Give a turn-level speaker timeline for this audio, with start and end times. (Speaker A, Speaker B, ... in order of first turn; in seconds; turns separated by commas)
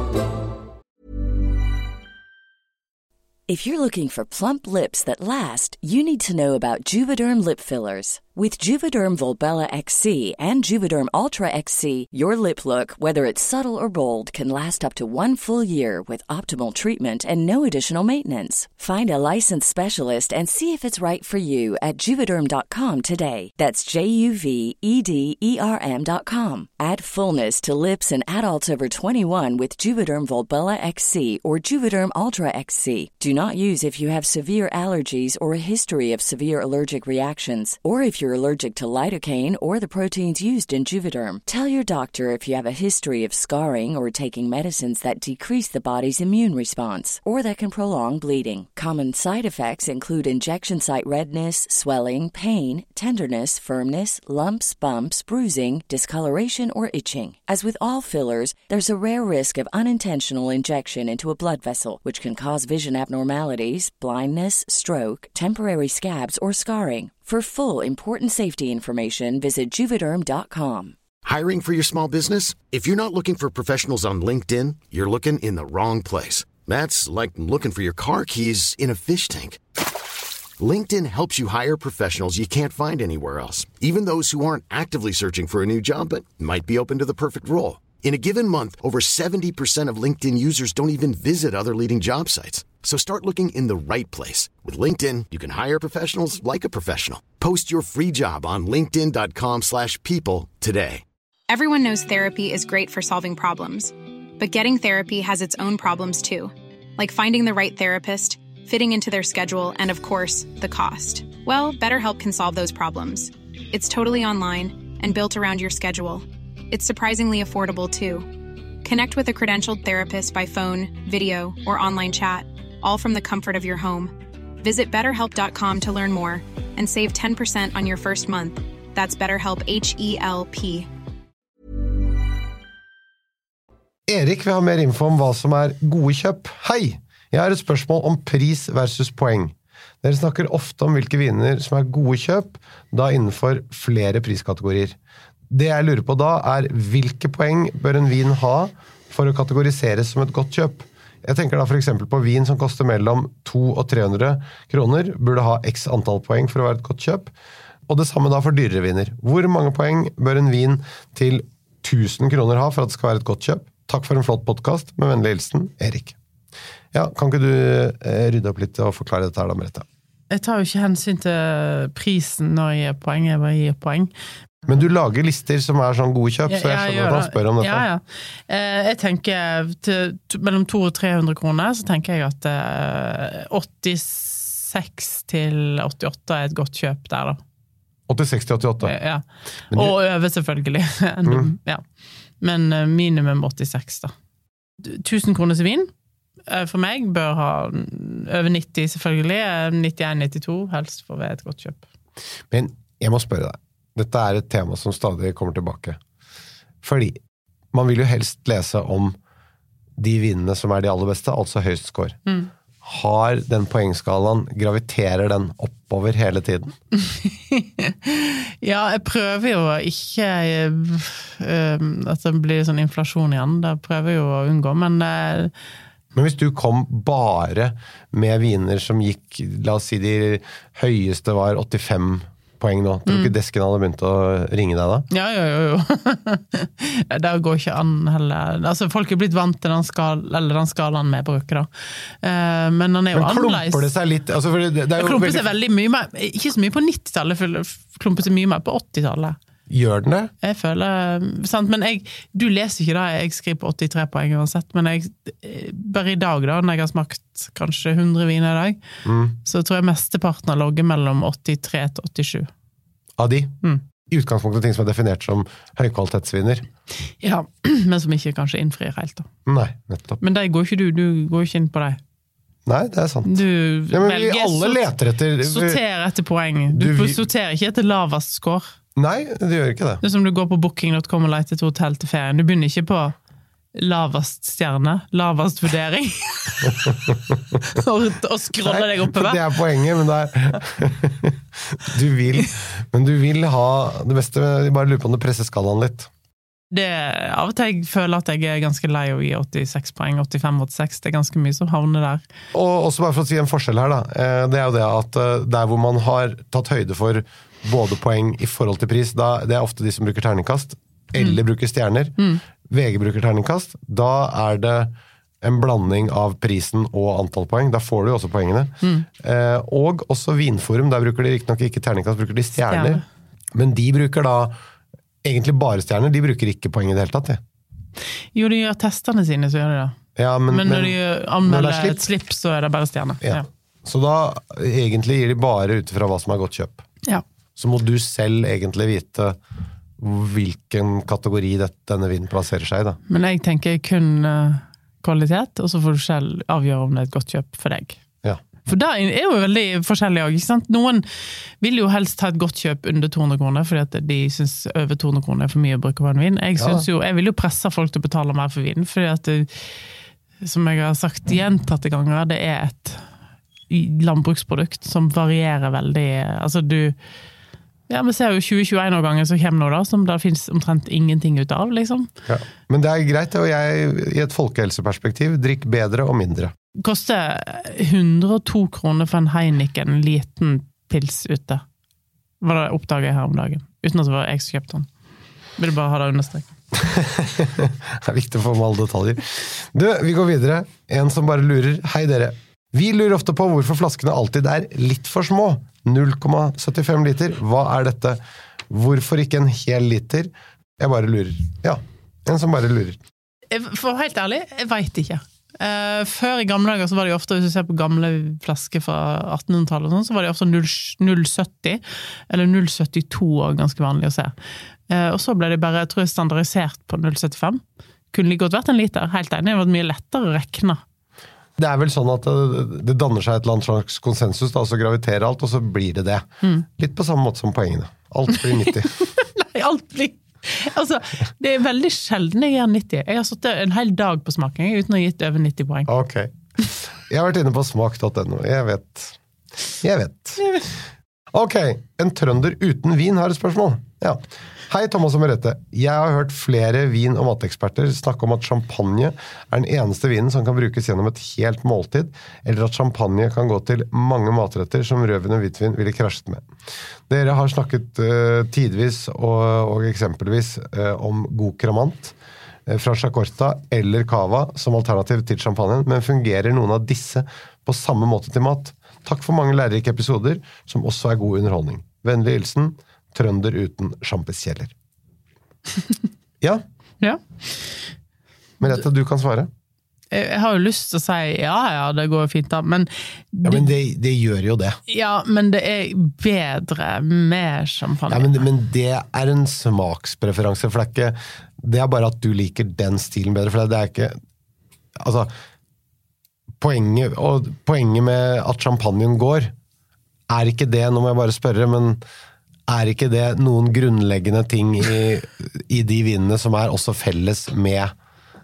Speaker A: 3.5-70.9, Speaker B: 71.2-79.6, Speaker B: 80.6-101.0, Speaker C: 101.5-118.3, Speaker C: 118.8-130.9, Speaker D: 134.1-145.0, Speaker D: 145.5-157.3, Speaker D: 157.9-166.2, Speaker D: 166.9-169.9, Speaker E: 170.3-174.1, Speaker D: 174.7-177.9, Speaker E: 176.5-187.4, Speaker D: 188.1-188.9, Speaker E: 188.8-191.8, Speaker D: 191.2-191.5, Speaker E: 192.4-194.1, Speaker E: 194.8-195.9, Speaker E: 196.5-201.8, Speaker D: 202.5-206.0, Speaker D: 206.8-207.2, Speaker D: 207.7-209.2, Speaker D: 210.0-212.2, Speaker D: 212.8-216.8, Speaker E: 217.0-225.5, Speaker D: 226.1-235.1, Speaker E: 233.1-233.3, Speaker E: 235.1-243.9, Speaker D: 243.1-245.5, Speaker E: 245.0-249.4, Speaker D: 249.7-250.3, Speaker E: 250.4-258.8, Speaker D: 259.1-259.4, Speaker E: 259.4-262.5, Speaker D: 263.2-263.6, Speaker D: 264.1-266.6, Speaker E: 267.2-269.3, Speaker D: 269.4-270.2, Speaker E: 270.2-272.0, Speaker D: 272.6-275.8, Speaker E: 273.2-274.9, Speaker E: 275.4-278.7, Speaker D: 276.7-277.2, Speaker D: 278.9-280.0, Speaker E: 280.0-283.1, Speaker E: 283.7-286.9, Speaker D: 286.9-287.4, Speaker E: 287.6-289.4, Speaker D: 288.6-296.1, Speaker E: 296.7-302.2, Speaker D: 302.5-323.0, Speaker E: 322.7-323.0, Speaker D: 323.5-324.6, Speaker D: 325.2-327.4, Speaker E: 328.3-329.9, Speaker D: 330.1-332.1, Speaker E: 330.5-333.4, Speaker D: 333.2-336.8, Speaker D: 337.6-339.4, Speaker D: 340.0-343.0, Speaker E: 343.1-348.0, Speaker E: 348.6-351.1, Speaker E: 351.6-359.7, Speaker D: 356.6-356.9, Speaker E: 360.4-363.1, Speaker E: 363.7-366.9, Speaker E: 367.9-372.1, Speaker D: 372.2-376.5, Speaker E: 376.8-381.6, Speaker E: 382.4-384.9, Speaker E: 385.6-386.5, Speaker D: 386.7-403.0, Speaker E: 403.5-414.3, Speaker E: 414.9-417.6, Speaker E: 418.1-420.8, Speaker D: 421.6-428.9, Speaker E: 429.2-435.9, Speaker D: 435.9-439.2, Speaker D: 439.8-440.6, Speaker D: 441.3-456.4, Speaker D: 457.1-462.1, Speaker D: 462.6-474.7, Speaker E: 477.0-477.8, Speaker D: 478.6-479.5, Speaker E: 480.1-483.7, Speaker D: 483.4-484.8, Speaker E: 484.9-488.4, Speaker D: 488.1-494.2, Speaker D: 495.0-495.3, Speaker D: 496.6-499.5, Speaker D: 500.3-502.0, Speaker D: 502.7-507.9